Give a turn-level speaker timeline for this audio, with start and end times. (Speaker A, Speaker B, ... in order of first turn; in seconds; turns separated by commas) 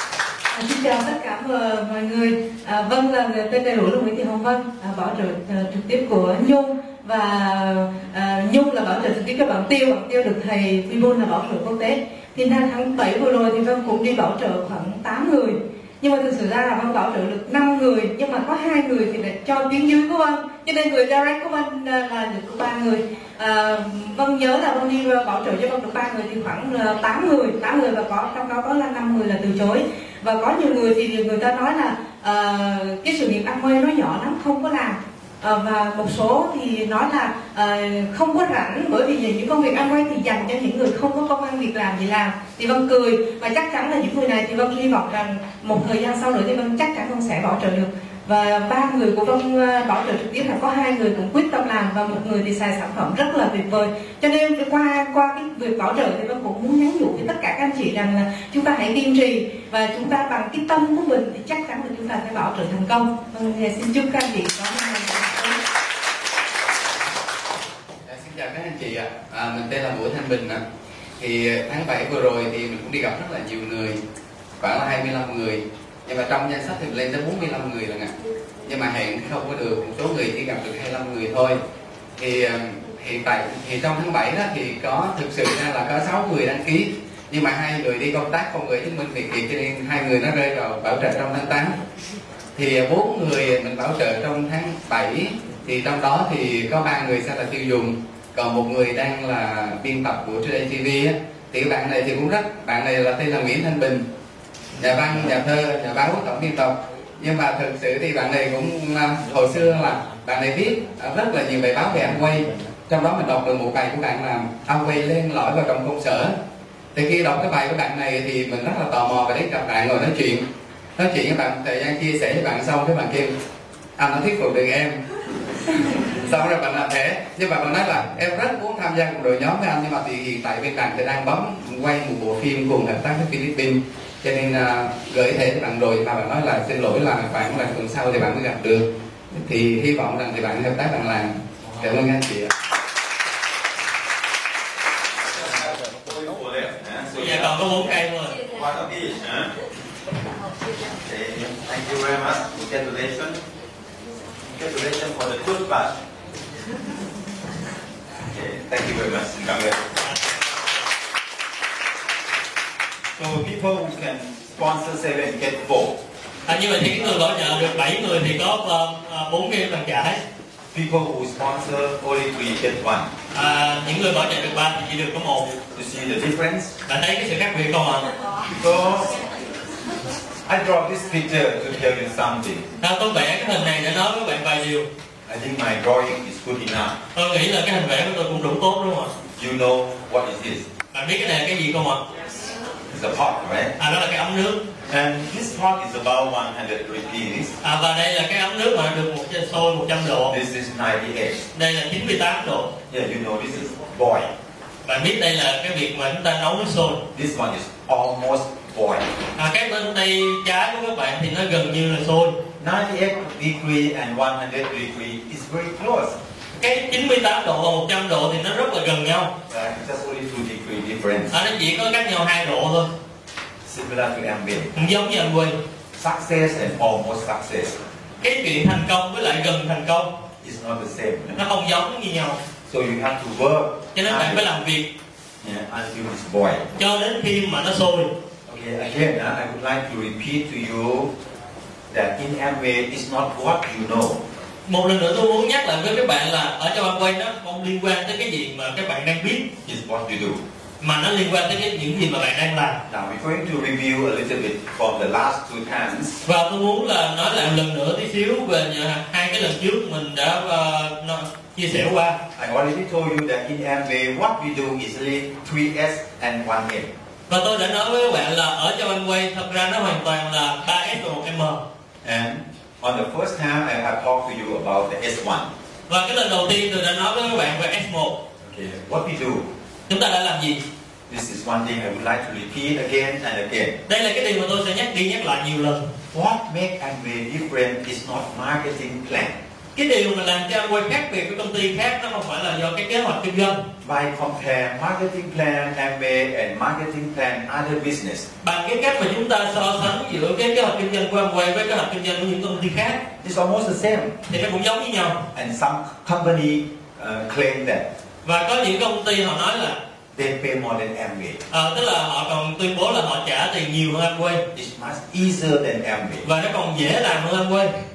Speaker A: 0.5-65.6, Speaker B: 68.1-70.6, Speaker B: 71.2-74.0, Speaker B: 74.6-81.6, Speaker B: 82.2-91.8, Speaker B: 92.5-104.0, Speaker B: 104.8-116.3, Speaker B: 116.9-120.4, Speaker B: 121.0-123.4, Speaker B: 124.0-125.0, Speaker B: 125.7-142.5, Speaker C: 145.3-147.7, Speaker D: 147.2-148.4, Speaker C: 148.4-149.5, Speaker C: 151.0-153.4, Speaker C: 154.5-155.9, Speaker C: 158.3-159.9, Speaker D: 160.0-160.8, Speaker C: 163.2-166.0, Speaker D: 166.5-170.2, Speaker C: 170.7-173.1, Speaker D: 173.3-175.6, Speaker C: 175.7-176.7, Speaker D: 176.9-178.1, Speaker C: 178.5-179.2, Speaker C: 180.5-182.7, Speaker D: 182.8-184.9, Speaker C: 185.3-187.0, Speaker D: 187.2-189.1, Speaker C: 189.4-190.7, Speaker D: 190.9-192.0, Speaker C: 192.9-193.7, Speaker D: 193.8-194.6, Speaker C: 194.9-197.5, Speaker D: 197.6-200.4, Speaker C: 200.3-201.4, Speaker D: 201.6-202.7, Speaker C: 202.9-204.3, Speaker D: 204.8-207.0, Speaker C: 207.1-209.1, Speaker D: 209.4-212.4, Speaker C: 212.6-216.2, Speaker D: 216.6-219.3, Speaker C: 219.5-221.3, Speaker D: 221.3-222.9, Speaker C: 223.7-224.8, Speaker D: 224.8-225.6, Speaker C: 225.9-227.8, Speaker D: 228.2-230.1, Speaker C: 230.4-231.4, Speaker D: 231.4-232.4, Speaker C: 232.7-234.5, Speaker D: 234.0-234.9, Speaker C: 235.4-236.7, Speaker D: 236.8-238.1, Speaker C: 238.5-241.1, Speaker C: 241.9-244.2, Speaker D: 244.7-249.5, Speaker C: 249.6-250.4, Speaker D: 250.8-252.8, Speaker C: 252.9-256.2, Speaker D: 256.3-262.2, Speaker C: 262.4-266.9, Speaker D: 267.3-271.6, Speaker C: 272.0-275.5, Speaker D: 275.9-278.2, Speaker C: 278.4-279.5, Speaker D: 279.9-280.6, Speaker C: 281.1-283.8, Speaker D: 283.9-285.8, Speaker C: 286.1-289.4, Speaker D: 289.8-293.6, Speaker C: 293.8-298.3, Speaker D: 298.4-303.0, Speaker C: 303.2-304.2, Speaker D: 304.3-305.2, Speaker C: 305.3-307.9, Speaker D: 308.2-309.8, Speaker C: 310.1-311.4, Speaker D: 311.5-314.4, Speaker C: 314.5-316.3, Speaker D: 316.2-317.7